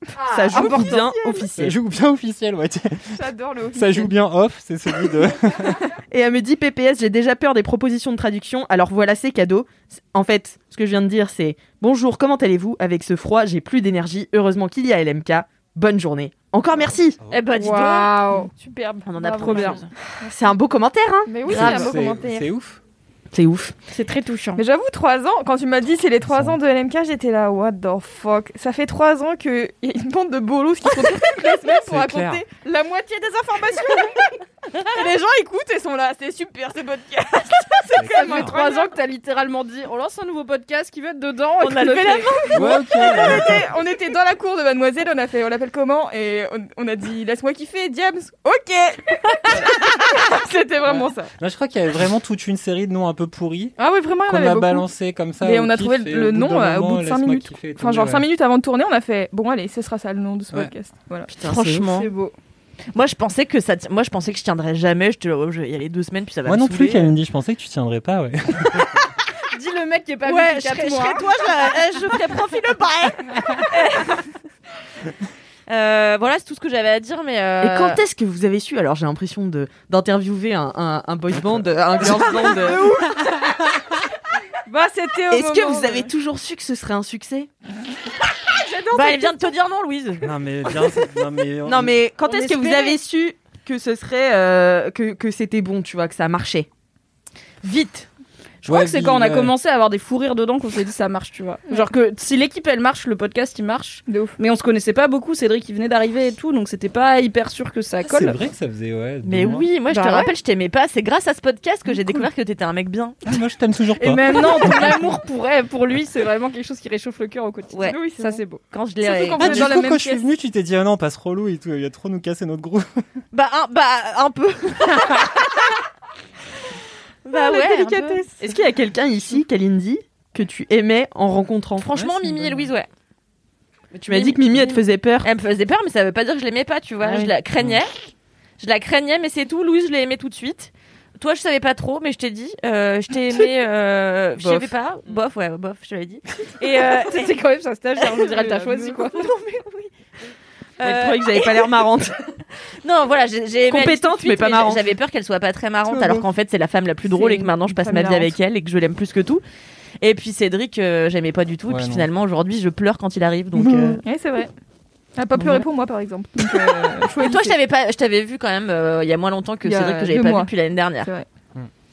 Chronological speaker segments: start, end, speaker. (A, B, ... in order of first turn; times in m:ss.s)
0:00.2-0:01.1 A
0:00.3-0:01.8 B
0:00.5-0:01.4 C
0:01.6-0:05.8 D
0:03.1-0:04.1 C
0:06.1-0:17.2 B
0:17.3-0:18.4 E
0:17.5-0:20.4 C
0:19.1-0:19.9 E
0:19.4-0:19.8 A
0:20.3-0:21.9 B
0:21.3-0:22.5 C
0:21.5-0:22.8 D
0:23.3-0:23.9 B
0:24.6-0:34.4 C
0:26.2-0:26.6 D
0:31.7-0:32.4 D
0:34.9-0:38.9 C
0:37.9-0:38.5 D
0:37.9-0:42.6 A
0:41.6-0:42.6 E
0:42.5-0:43.7 D
0:42.6-0:51.3 C
0:50.8-0:53.7 D
0:53.8-1:01.3 C
0:54.2-0:58.3 D
1:01.3-1:01.8 B
1:01.4-1:02.1 E
1:01.8-1:02.3 C
1:02.9-1:07.1 E
1:06.4-1:09.0 D
1:09.5-1:11.2 A
1:10.2-1:14.2 E
1:15.7-1:18.0 E
1:17.6-1:22.9 B
1:24.7-1:26.1 C
1:25.3-1:27.5 B
1:28.7-1:29.2 A
1:28.9-1:30.2 E
1:30.2-1:32.0 D
1:31.6-1:36.7 B
1:32.3-1:32.9 A
1:37.6-1:38.0 E
1:38.6-1:48.4 A
1:38.6-1:39.5 D
1:44.1-1:44.3 C
1:48.1-1:49.7 D
1:49.2-1:53.2 E
1:49.9-1:50.3 A
1:53.2-1:55.1 D
1:54.0-1:58.6 A
1:57.7-1:58.0 E
1:57.9-1:58.4 C
1:58.6-1:59.7 E
1:59.0-2:00.2 C
1:59.4-2:02.9 D
2:03.3-2:05.7 E
2:07.2-2:08.2 E
2:07.3-2:11.9 B
2:11.8-2:12.9 E
2:12.0-2:12.7 D
2:14.0-2:27.3 E
2:14.0-2:15.3 B
2:17.0-2:17.3 B
2:24.4-2:24.7 B
2:26.8-2:29.2 A
2:28.0-2:29.9 E
2:30.8-2:31.8 E
2:30.8-2:32.2 B
2:32.8-2:39.4 E
2:33.7-2:34.8 B
2:35.9-2:36.2 D
2:37.1-2:38.3 C
2:40.0-2:44.0 E
2:41.7-2:42.0 D
2:43.6-2:44.5 C
2:45.2-2:47.6 C
2:45.4-2:45.6 E
2:47.2-2:51.1 E
2:49.6-2:51.3 C